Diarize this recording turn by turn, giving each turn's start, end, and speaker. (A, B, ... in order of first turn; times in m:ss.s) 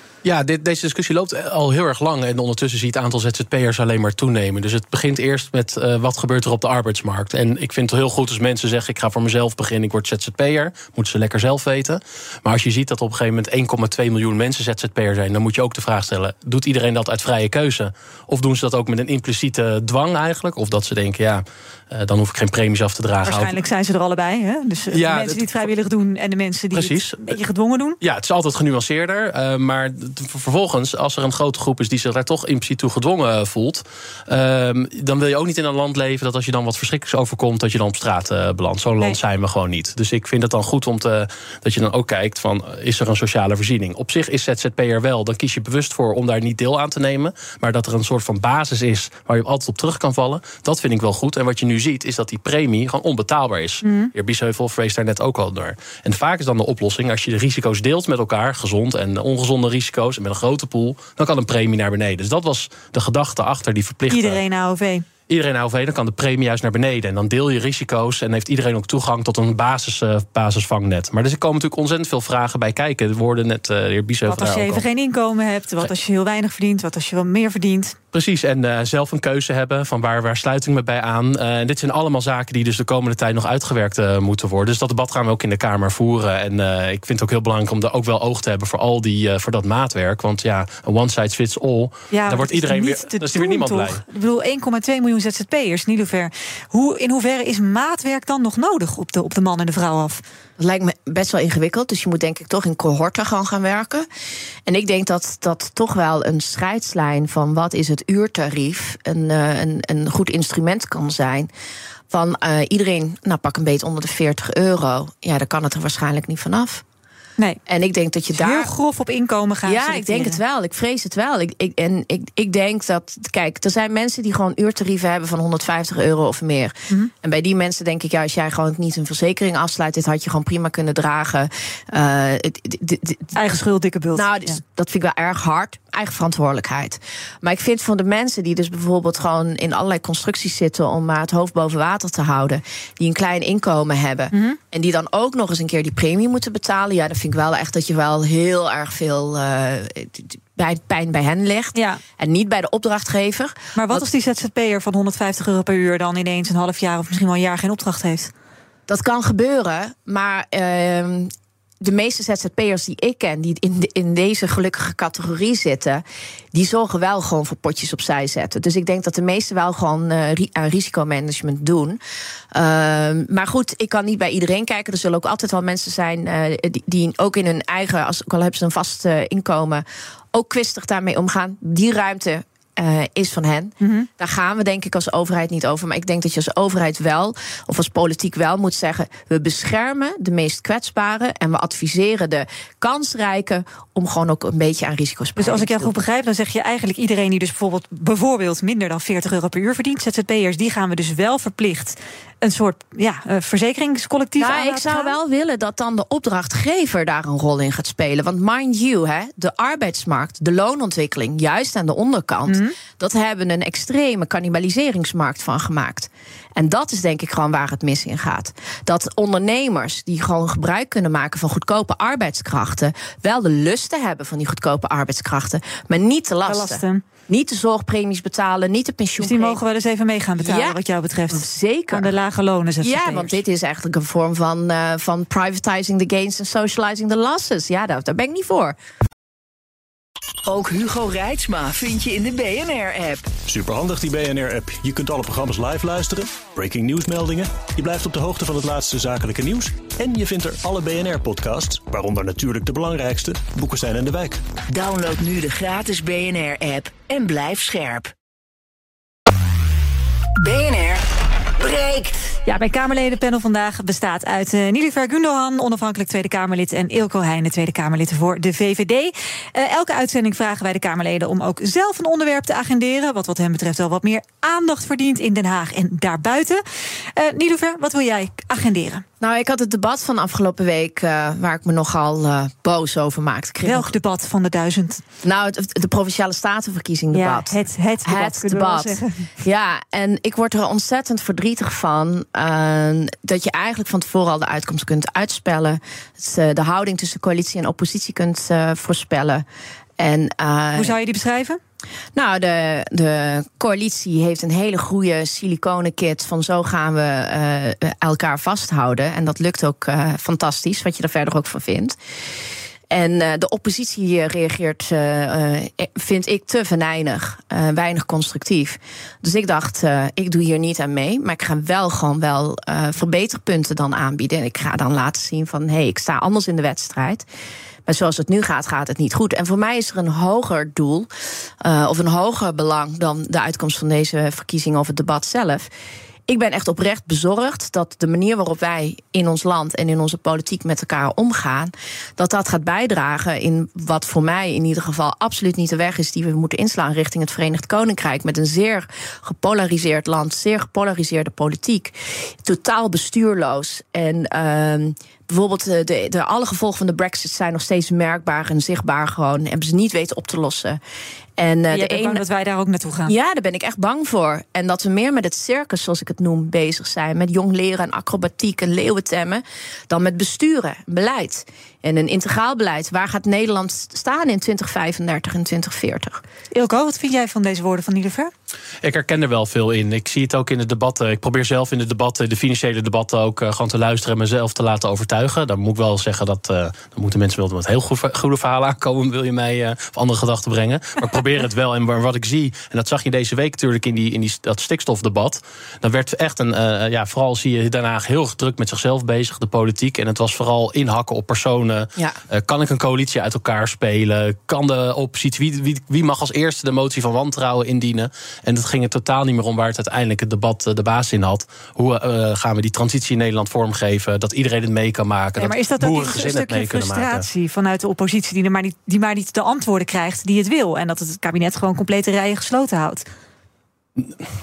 0:00.2-0:23.5 A
0:23.2-0:28.0 B
0:24.9-0:25.6 A
0:26.7-0:27.3 A
0:28.0-1:04.4 A
0:53.8-0:54.1 B
1:04.1-1:05.0 B
1:05.3-1:14.8 A
1:14.3-1:18.0 B
1:18.1-1:34.0 A
1:32.1-1:40.2 B
1:40.6-1:44.1 C
1:44.6-1:51.5 C
1:52.1-1:56.8 C
1:57.6-1:58.7 C
1:58.3-2:00.4 B
1:59.6-2:13.3 C
2:13.3-2:14.6 B
2:14.1-2:34.0 C
2:24.3-2:24.6 B
2:31.7-2:32.0 B
2:33.7-2:38.3 B
2:38.9-2:52.0 C
2:52.5-3:15.9 C
3:03.8-3:04.1 B
3:15.4-3:25.2 B
3:24.4-3:49.6 C
3:32.5-3:32.8 B
3:46.4-3:47.0 B
3:49.2-3:53.4 B
3:50.4-3:52.1 C
3:52.8-3:58.8 C
4:00.4-4:03.3 D
4:03.4-4:14.4 E
4:14.7-4:18.1 D
4:20.4-4:21.0 D
4:21.6-4:22.3 D
4:22.4-4:36.6 B
4:37.1-4:39.0 B
4:39.2-4:43.9 C
4:43.6-4:45.0 B
4:45.2-4:59.4 C
4:47.1-4:49.3 B
5:00.0-5:01.0 C
5:00.7-5:01.6 B
5:02.1-5:12.0 C
5:12.9-5:27.2 C
5:27.8-5:31.1 C
5:31.6-5:35.7 C
5:36.3-6:00.8 C
6:01.4-6:02.2 C
6:01.7-6:03.1 B
6:03.0-6:16.2 C
6:16.5-6:18.3 B
6:18.8-6:57.2 A
6:55.4-7:03.0 B